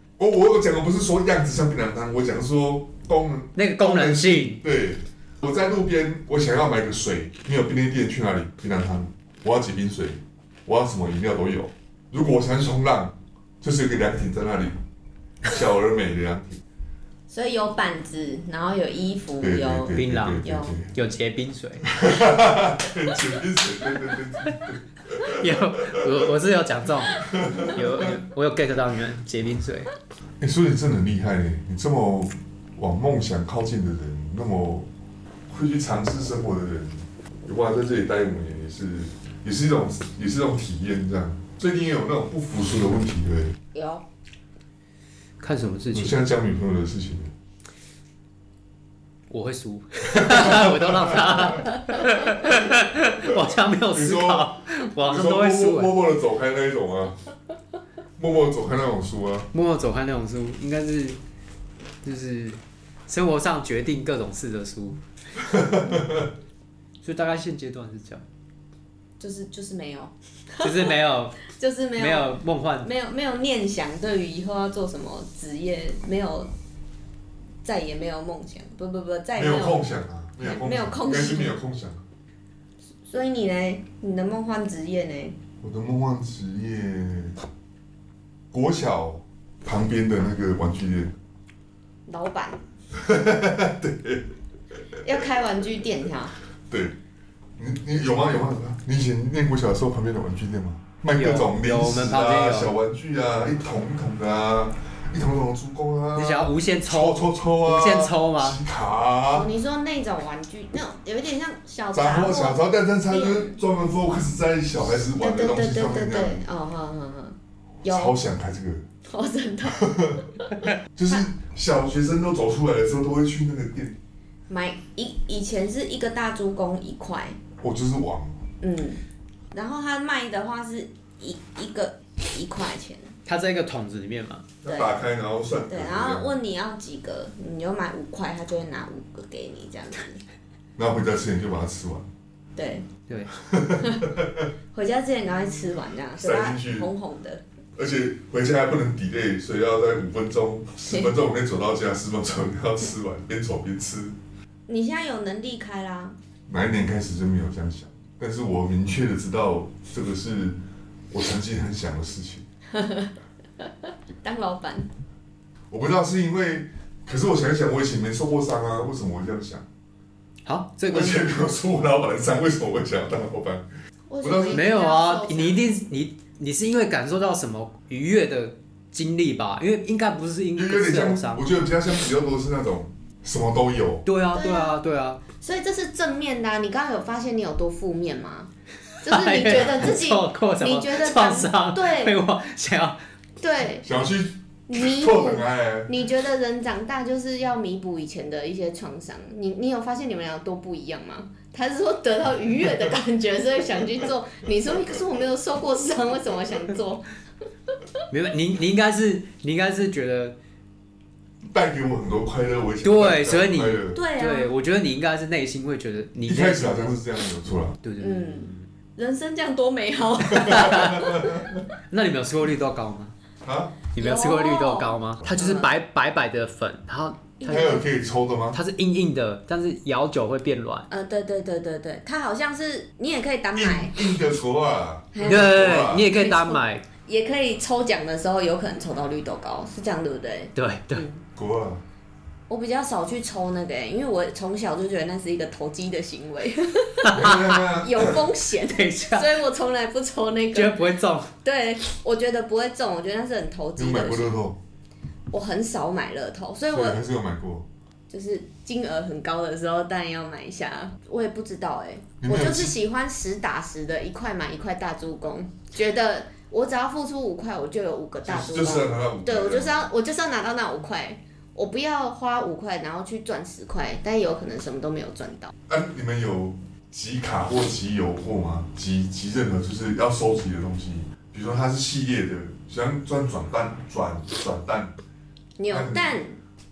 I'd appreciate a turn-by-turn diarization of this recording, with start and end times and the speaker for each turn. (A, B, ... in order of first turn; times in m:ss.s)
0:00.2-0:14.7 A
0:03.6-0:04.6 B
0:15.4-0:16.6 A
0:17.3-0:20.8 C
0:19.4-0:20.9 A
0:19.9-0:21.9 B
0:21.9-0:26.2 A
0:25.2-0:29.9 B
0:27.1-0:28.2 A
0:30.4-0:34.9 A
0:35.5-0:43.6 A
0:43.7-0:44.0 C
0:45.4-0:46.2 B
0:45.9-0:47.3 A
0:49.3-0:55.9 B
0:50.1-0:51.7 A
0:53.9-0:57.2 A
0:58.2-0:59.5 A
0:59.5-1:01.2 B
1:02.0-1:05.0 B
1:05.5-1:06.3 A
1:07.0-1:08.2 B
1:09.2-1:16.5 C
1:10.6-1:11.4 B
1:12.0-1:12.9 B
1:17.6-1:19.9 C
1:19.4-1:22.0 A
1:20.4-1:21.6 C
1:23.0-1:25.4 C
1:25.6-1:27.4 A
1:28.5-1:31.2 A
1:32.1-1:32.6 C
1:32.9-1:34.3 A
1:35.0-1:36.4 C
1:36.7-1:37.0 A
1:37.6-1:49.5 A
1:41.1-1:42.7 B
1:46.2-1:48.6 B
1:49.3-1:53.6 C
1:51.9-1:56.4 A
1:55.2-1:58.2 C
1:57.8-1:58.8 A
1:59.1-2:00.2 C
1:59.7-2:00.3 A
2:01.0-2:04.0 A
2:04.5-2:07.4 C
2:07.6-2:08.4 A
2:08.6-2:09.0 C
2:09.5-2:13.1 C
2:13.3-2:14.5 B
2:14.6-2:16.3 A
2:14.6-2:15.0 C
2:15.7-2:20.2 C
2:20.8-2:22.1 A
2:22.6-2:22.9 C
2:23.3-2:24.5 A
2:23.8-2:24.1 C
2:24.7-2:27.4 C
2:26.2-2:26.9 A
2:27.8-2:34.2 A
2:34.7-2:36.2 C
2:36.5-2:40.6 A
2:41.1-2:42.4 A
2:42.7-2:43.7 C
2:44.2-2:44.9 C
2:45.7-2:49.7 A
2:50.5-2:51.3 B
2:50.9-2:53.7 A
2:54.1-2:55.6 C
2:54.2-2:54.6 A
2:54.5-3:01.5 B
3:00.6-3:04.1 A
3:04.0-3:05.2 B
3:04.3-3:04.8 C
3:05.4-3:08.5 C
3:09.0-3:12.2 C
3:09.0-3:13.0 B
3:13.4-3:13.9 C
3:13.8-3:16.0 A
3:14.7-3:27.1 C
3:28.1-3:30.4 B
3:31.4-3:34.0 A
3:32.8-3:36.9 B
3:33.9-3:34.5 C
3:36.2-3:37.8 A
3:37.8-3:38.7 B
3:38.0-3:41.5 C
3:40.3-3:41.6 A
3:40.4-3:41.0 B
3:41.9-3:43.1 B
3:43.4-3:43.8 A
3:44.0-3:47.8 B
3:44.0-3:45.7 C
3:47.4-3:47.8 C
3:47.5-3:48.6 A
3:48.5-3:50.9 B
3:50.9-3:54.0 C
3:53.6-3:56.1 A
3:55.1-4:01.2 C
3:55.2-3:56.9 B
4:00.6-4:01.1 B
4:01.4-4:01.8 A
4:02.5-4:10.9 C
4:07.1-4:07.3 B
4:07.1-4:08.3 A
4:08.7-4:09.3 B
4:10.5-4:11.3 B
4:11.4-4:14.4 C
4:13.8-4:14.6 A
4:15.3-4:17.0 C
4:16.7-4:17.7 A
4:18.1-4:35.5 C
4:22.2-4:22.8 A
4:28.2-4:29.8 A
4:35.7-4:44.9 A
4:45.6-4:46.4 C
4:45.7-4:46.1 A